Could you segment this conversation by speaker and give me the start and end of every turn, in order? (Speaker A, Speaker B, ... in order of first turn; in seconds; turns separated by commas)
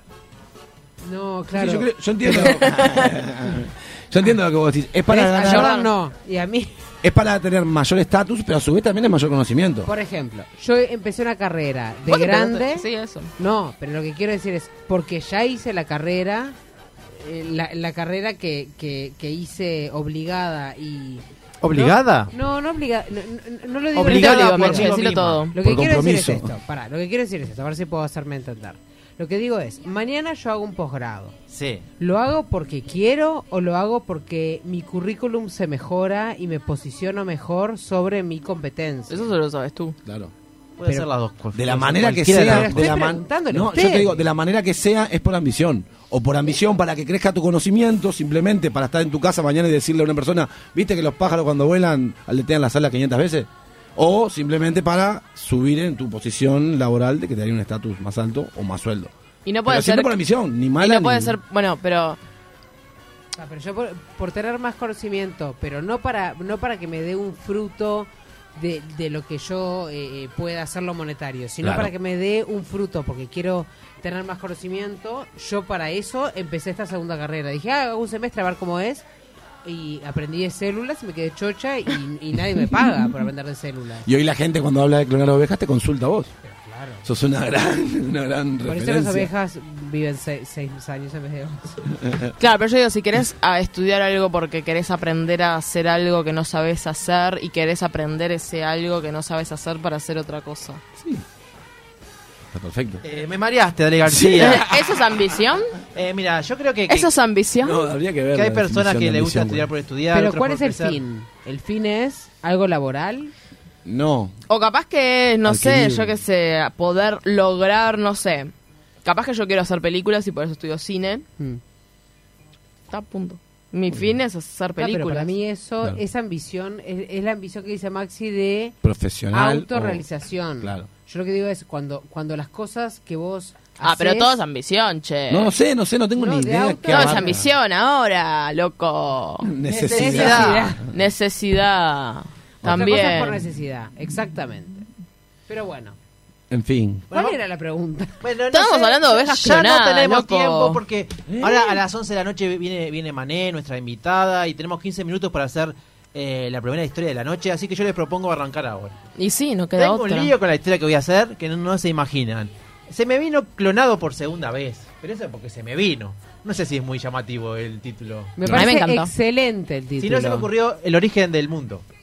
Speaker A: 1.0-2.6, Speaker B: 1.5-5.8, Speaker A: 5.1-6.7, Speaker C: 5.4-5.9, Speaker B: 7.0-9.9, Speaker A: 9.8-12.8, Speaker C: 12.1-13.3, Speaker A: 13.4-16.6, Speaker A: 17.1-24.9, Speaker D: 21.6-22.3, Speaker D: 23.9-25.4, Speaker C: 23.9-25.6, Speaker A: 25.5-31.3, Speaker B: 25.6-26.5, Speaker D: 31.5-31.8, Speaker A: 32.0-39.3, Speaker C: 39.1-40.0, Speaker B: 40.0-40.3, Speaker D: 40.8-43.0, Speaker B: 41.5-59.1, Speaker A: 42.3-44.2, Speaker C: 59.4-60.1, Speaker B: 59.6-61.4, Speaker C: 60.8-62.2, Speaker A: 63.4-79.0, Speaker B: 71.6-71.9, Speaker A: 79.6-84.1, Speaker B: 84.0-86.3, Speaker A: 86.4-87.0, Speaker B: 87.0-89.3, Speaker A: 88.6-91.8, Speaker C: 92.4-100.8, Speaker B: 101.0-101.2, Speaker B: 102.5-103.0, Speaker D: 103.0-104.7, Speaker B: 104.1-104.8, Speaker C: 104.4-105.7, Speaker D: 105.9-107.1, Speaker C: 106.9-107.8, Speaker B: 107.6-109.7, Speaker D: 108.3-111.0, Speaker A: 110.1-113.3, Speaker B: 113.8-114.3, Speaker C: 114.5-118.5, Speaker B: 115.4-116.2, Speaker C: 119.0-121.2, Speaker C: 122.9-125.3, Speaker A: 124.8-128.8, Speaker B: 128.8-130.0, Speaker A: 129.3-134.3, Speaker B: 130.6-130.9, Speaker C: 133.8-135.5, Speaker B: 135.3-137.5, Speaker A: 136.2-137.3, Speaker C: 136.9-139.5, Speaker B: 139.4-140.8, Speaker D: 139.7-140.7, Speaker A: 139.9-140.8, Speaker C: 140.2-143.4, Speaker A: 142.6-144.9, Speaker A: 145.5-145.9, Speaker B: 146.5-147.1, Speaker D: 147.1-147.4, Speaker A: 147.1-148.2, Speaker D: 148.2-159.0, Speaker C: 148.5-150.8, Speaker B: 151.3-151.7, Speaker C: 159.2-160.3, Speaker D: 159.8-168.4, Speaker A: 168.4-170.5, Speaker B: 168.4-168.7, Speaker C: 168.5-169.1, Speaker D: 170.0-171.8